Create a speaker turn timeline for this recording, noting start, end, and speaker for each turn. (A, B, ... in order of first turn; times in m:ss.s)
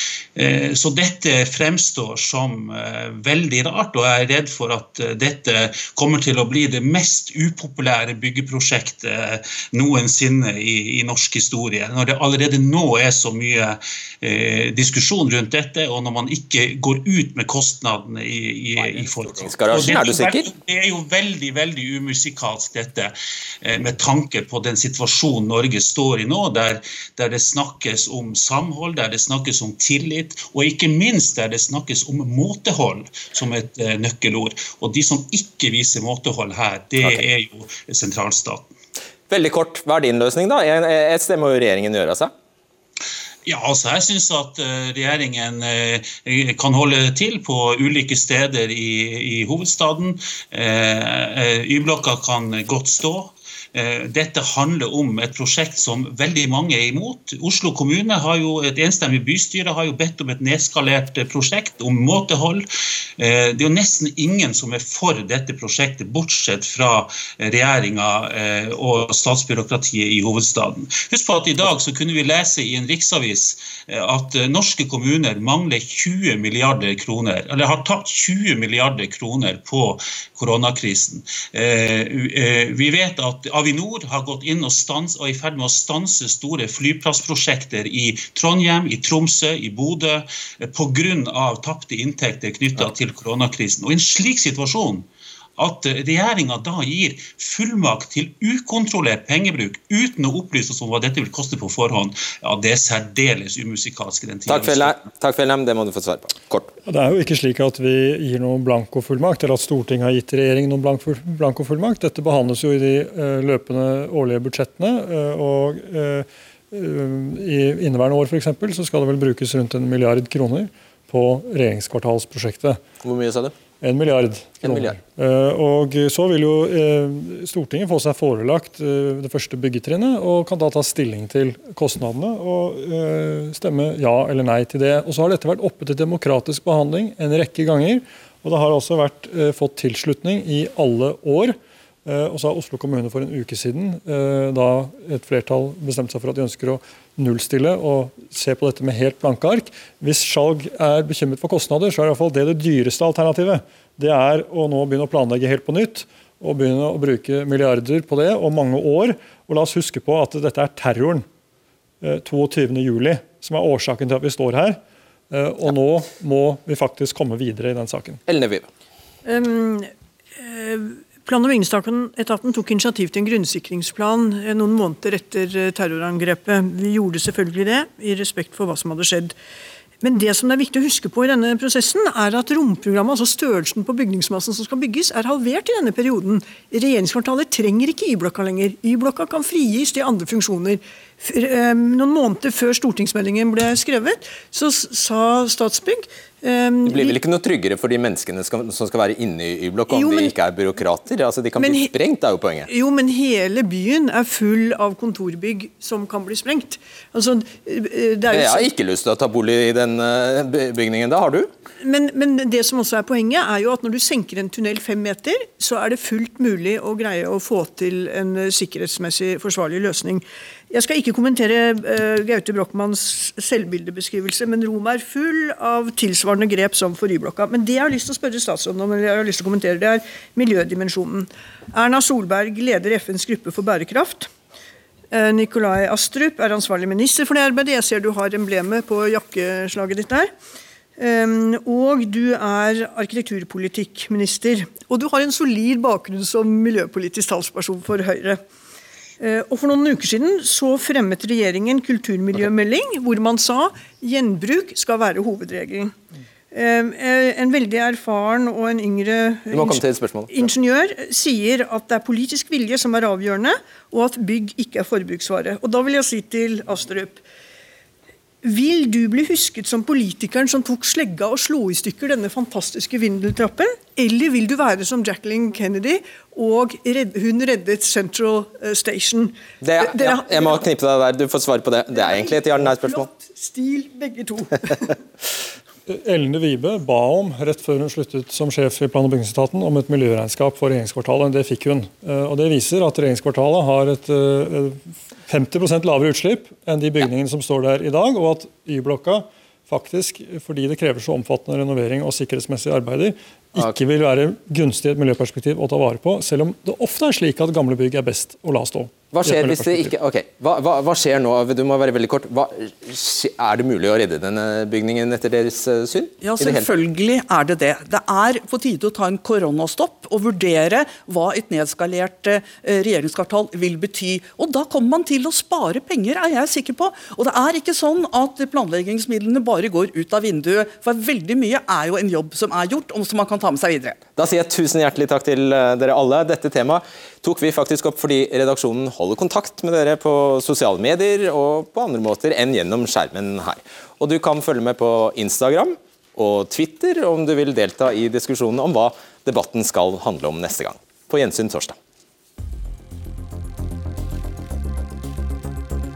0:00.4-0:23.1 A
0:18.8-0:20.5 B
0:23.6-0:38.7 A
0:39.3-0:42.3 B
0:43.4-1:02.6 A
1:03.2-1:45.0 A
1:44.5-1:46.7 B
1:46.9-2:02.8 C
2:03.0-2:03.5 B
2:03.8-2:41.2 C
2:04.6-2:05.0 B
2:42.0-2:44.8 C
2:45.3-2:48.2 C
2:48.3-2:48.6 B
2:49.2-2:59.3 D
3:00.0-3:17.2 D
3:16.8-3:22.7 B
3:19.9-3:20.4 D
3:21.6-3:21.9 D
3:22.7-3:28.7 D
3:28.3-3:31.5 B
3:31.8-3:54.3 D
3:55.1-4:00.3 D
4:01.0-4:08.4 D
4:09.2-4:15.9 D
4:16.5-4:27.2 D
4:19.5-4:20.5 B
4:28.4-4:40.6 D
4:39.6-4:43.1 B
4:41.9-4:45.0 D
4:45.9-5:09.9 C
5:09.1-5:16.7 B
5:16.2-5:34.0 E
5:34.2-5:51.8 B